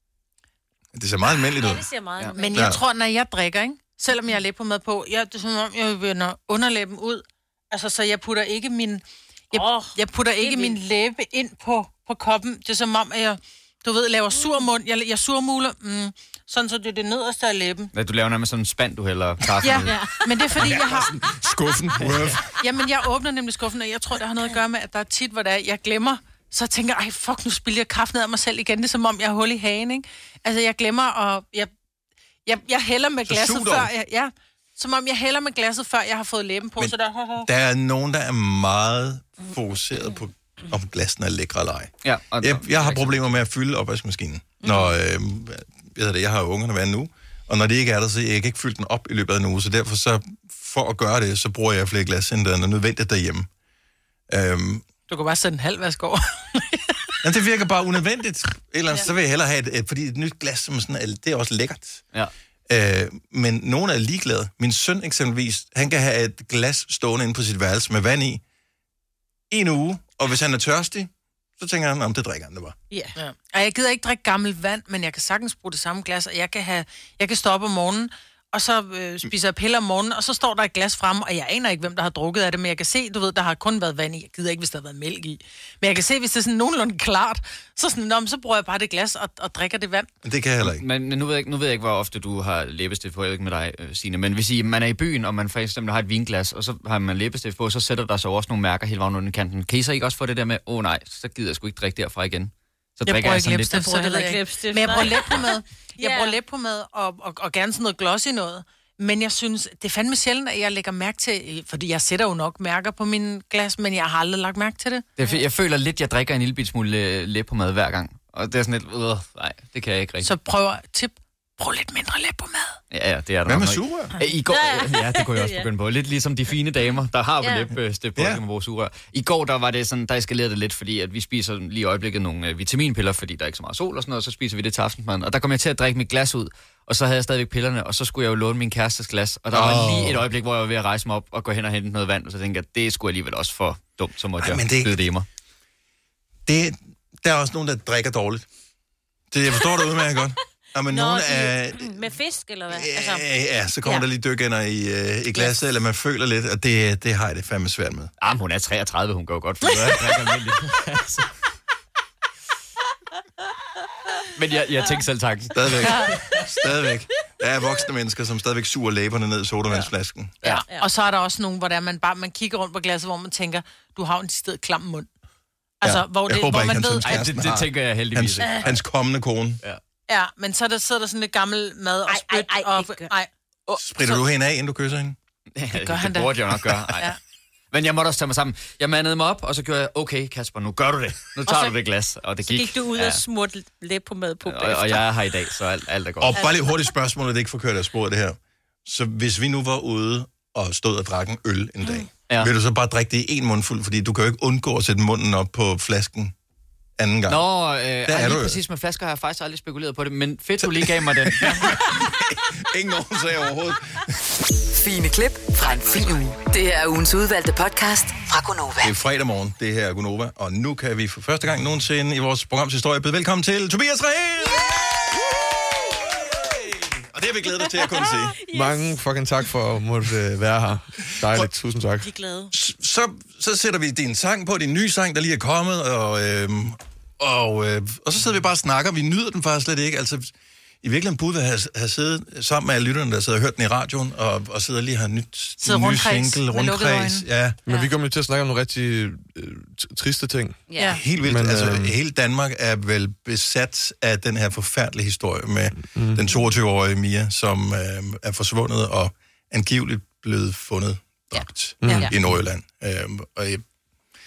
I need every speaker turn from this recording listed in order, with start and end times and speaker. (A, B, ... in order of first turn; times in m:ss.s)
0:00.9-0:01.9 A
0:01.3-0:02.7 B
0:02.4-0:17.9 C
0:09.5-0:10.8 B
0:17.9-0:20.0 D
0:19.6-0:21.1 C
0:19.8-0:20.3 B
0:20.6-0:22.4 A
0:22.6-0:31.7 C
0:32.5-0:37.5 C
0:33.3-0:33.9 A
0:36.8-0:53.5 A
0:42.0-0:43.2 D
0:54.3-0:54.8 A
0:55.1-0:57.1 C
0:57.2-1:02.0 A
1:02.7-1:08.4 A
1:09.5-1:12.8 A
1:13.2-1:30.1 C
1:30.2-1:30.8 A
1:30.6-1:43.9 D
1:43.0-1:55.1 C
1:43.8-1:46.4 B
1:55.2-2:00.3 D
2:00.2-2:02.8 C
2:02.9-2:25.2 D
2:03.5-2:04.2 A
2:04.5-2:05.7 B
2:07.4-2:07.7 B
2:08.2-2:08.4 A
2:19.5-2:20.2 A
2:24.4-2:25.0 A
2:26.5-2:28.5 A
2:29.3-2:32.1 A
2:30.9-2:33.3 B
2:32.7-2:38.1 A
2:38.2-2:41.3 D
2:44.4-2:46.1 D
2:45.5-2:50.4 A
2:50.4-2:55.1 C
2:50.5-2:50.9 B
2:55.8-2:57.2 C
2:55.8-2:59.6 A
2:57.0-2:58.8 D
3:00.1-3:04.2 C
3:02.1-3:03.1 B
3:03.8-3:05.2 A
3:05.6-3:07.1 D
3:05.7-3:06.3 C
3:07.7-3:13.2 D
3:11.5-3:11.8 B
3:12.4-3:15.1 B
3:14.5-3:16.4 D
3:16.2-3:26.3 A
3:16.3-3:16.7 B
3:21.8-3:22.1 B
3:27.0-3:27.4 A
3:27.3-3:31.8 D
3:28.0-3:28.6 A
3:30.6-3:34.0 A
3:34.7-3:38.9 E
3:38.8-3:48.4 A
3:47.6-3:49.0 B
3:48.5-3:52.1 F
3:52.0-3:52.5 B
3:52.5-4:07.6 A
4:05.6-4:07.2 C
4:07.7-4:07.9 B
4:07.7-4:10.6 F
4:10.7-4:11.0 B
4:10.8-4:11.0 C
4:10.8-4:23.6 A
4:11.1-4:11.9 F
4:15.8-4:16.2 F
4:21.3-4:22.1 B
4:21.8-4:22.4 F